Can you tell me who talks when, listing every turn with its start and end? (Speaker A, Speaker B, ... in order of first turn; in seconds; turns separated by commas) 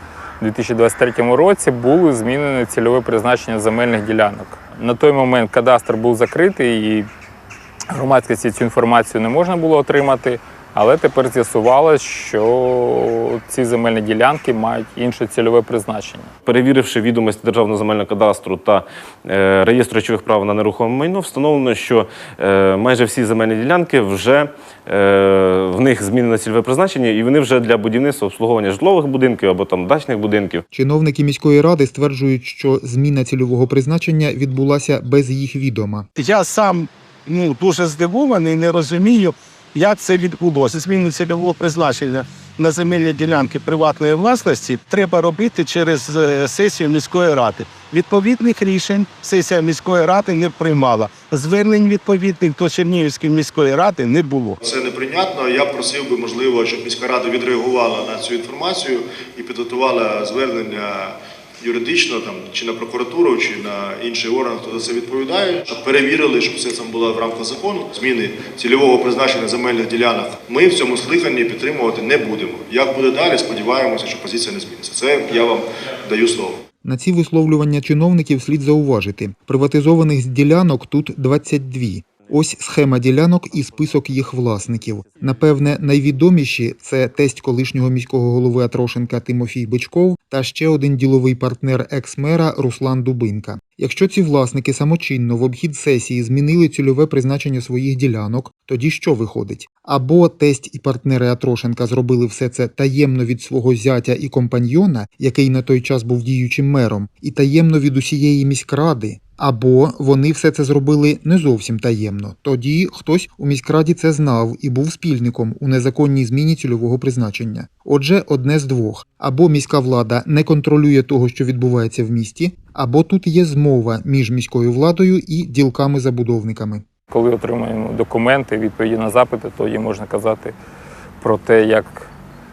Speaker A: 0.4-7.1, Speaker A: 7.9-16.3, Speaker B: 16.4-30.6, Speaker C: 30.7-36.0, Speaker D: 36.1-54.5, Speaker E: 54.6-76.6, Speaker C: 76.8-126.8, Speaker A: 127.1-130.5, Speaker A: 131.2-132.1